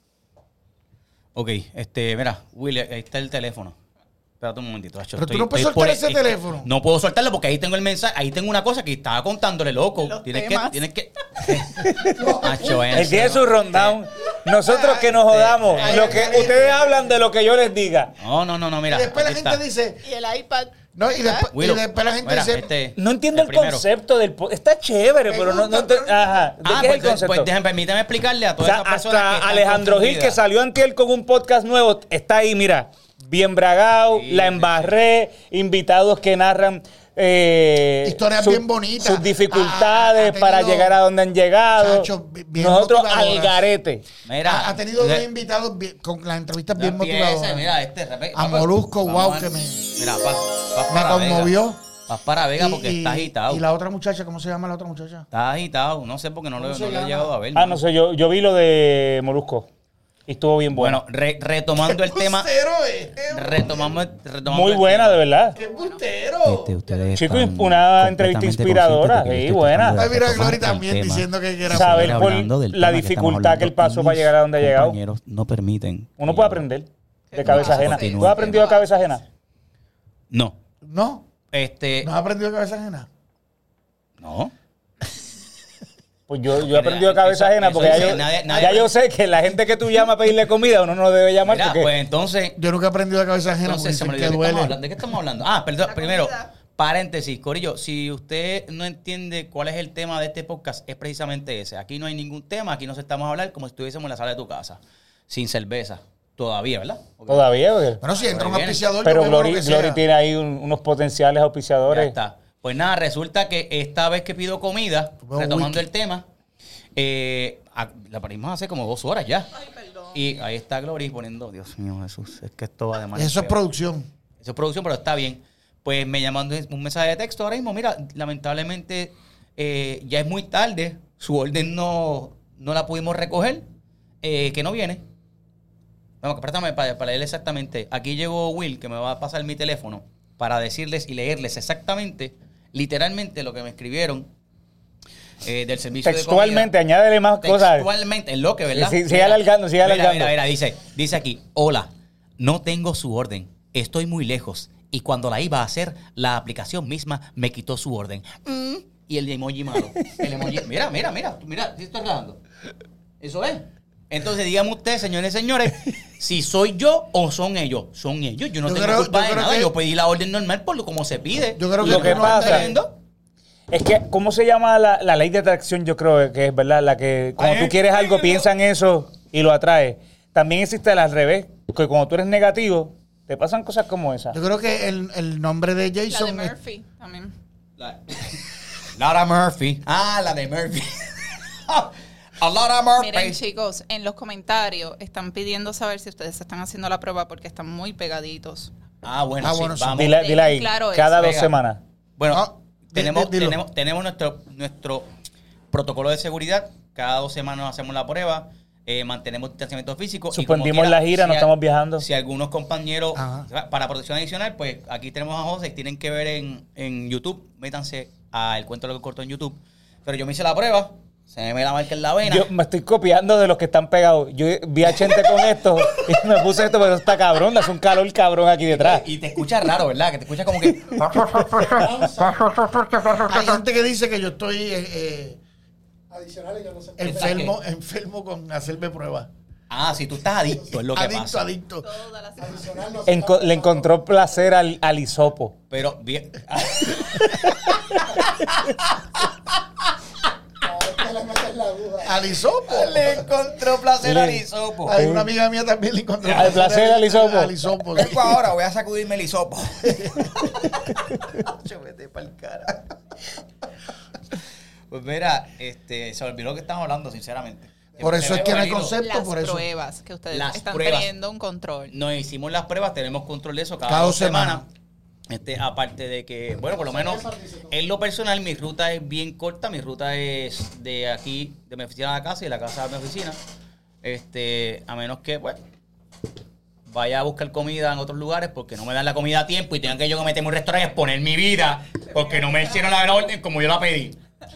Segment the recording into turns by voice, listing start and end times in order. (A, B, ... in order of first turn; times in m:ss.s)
0:01.3-0:03.7 A
0:04.4-0:14.0 A
0:05.2-0:06.7 B
0:10.0-0:10.8 C
0:11.8-0:18.1 D
0:12.0-0:13.0 E
0:14.7-0:15.0 B
0:15.1-0:16.6 A
0:15.8-0:16.9 B
0:18.2-0:19.6 A
0:18.9-0:20.0 B
0:20.0-0:21.5 C
0:20.9-0:22.7 B
0:21.5-0:23.8 A
0:23.0-0:27.5 D
0:25.2-0:26.3 B
0:26.6-0:30.4 A
0:28.6-0:44.0 D
0:34.1-0:34.9 A
0:38.0-0:41.0 B
0:41.7-0:43.6 B
0:44.2-0:45.3 A
0:44.4-0:47.7 B
0:46.8-0:51.6 A
0:48.3-0:49.9 B
0:50.9-0:51.8 B
0:52.1-0:53.6 A
0:52.6-0:55.2 B
0:55.3-0:57.8 A
0:56.6-0:57.3 B
0:57.5-0:59.7 D
1:00.3-1:01.0 D
1:00.7-1:02.5 A
1:01.8-1:03.9 B
1:03.3-1:05.2 A
1:04.4-1:05.5 D
1:05.5-1:06.0 C
1:05.5-1:06.7 B
1:06.4-1:16.6 A
1:07.1-1:10.0 D
1:09.9-1:12.3 B
1:11.7-1:15.0 D
1:16.2-1:19.2 D
1:17.3-1:18.8 C
1:17.4-1:18.8 A
1:20.3-1:20.6 A
1:20.8-1:21.2 B
1:21.5-1:22.1 A
1:22.0-1:23.1 B
1:24.2-1:24.5 A
1:26.3-1:31.9 D
1:26.6-1:28.9 A
1:31.4-1:32.6 A
1:32.6-1:34.8 B
1:33.6-1:47.4 A
1:35.8-1:36.5 C
1:47.3-1:48.0 D
1:48.0-1:50.0 B
1:48.1-1:48.8 A
1:49.0-1:52.1 D
1:51.9-1:56.2 A
1:55.2-1:55.8 B
1:57.0-1:59.5 A
1:59.6-2:00.1 C
2:00.1-2:03.6 A
2:03.1-2:04.1 B
2:04.4-2:13.6 A
2:14.2-2:15.0 A
2:16.2-2:24.3 A
2:25.4-2:26.7 A
2:26.0-2:27.9 D
2:27.4-2:42.4 A
2:28.7-2:30.3 D
2:43.2-2:52.9 A
2:48.6-2:49.7 B
2:51.6-2:52.8 B
2:51.8-2:52.7 D
2:53.7-3:04.4 D
2:57.4-2:58.4 A
3:04.3-3:06.5 B
3:06.1-3:07.3 C
3:07.8-3:13.4 A
3:13.0-3:18.7 C
3:19.0-3:20.2 A
3:19.4-3:20.1 B
3:19.9-3:21.8 D
3:20.1-3:21.3 C
3:21.1-3:21.5 A
3:22.2-3:25.1 A
3:22.3-3:23.6 B
3:25.7-3:42.5 A
3:30.3-3:32.0 D
3:33.2-3:33.5 B
3:42.2-3:49.0 D
3:44.8-3:45.5 A
3:48.7-3:51.2 A
3:51.0-3:51.7 D
3:51.5-3:51.7 B
3:51.8-3:52.6 E
3:53.1-3:55.4 B
3:56.1-3:57.5 E
3:57.0-3:59.3 B
3:57.0-3:57.5 A
3:59.7-4:01.4 A
4:00.9-4:01.9 B
4:01.8-4:02.9 C
4:02.4-4:04.0 E
4:03.1-4:05.6 D
4:05.7-4:09.3 A
4:07.2-4:08.7 D
4:10.6-4:12.2 E
4:12.0-4:13.2 B
4:12.7-4:15.0 A
4:14.0-4:15.3 D
4:14.8-4:18.4 B
4:16.2-4:16.6 A
4:16.3-4:17.5 D
4:17.9-4:22.9 A
4:19.9-4:20.3 B
4:24.9-4:29.0 A
4:28.0-4:28.5 E
4:28.0-4:29.6 B
4:29.0-4:31.9 C
4:30.3-4:31.1 A
4:31.9-4:34.6 A
4:33.8-4:34.6 B
4:35.3-4:43.4 A
4:36.6-4:37.7 E
4:44.0-4:45.6 A
4:46.9-4:54.2 A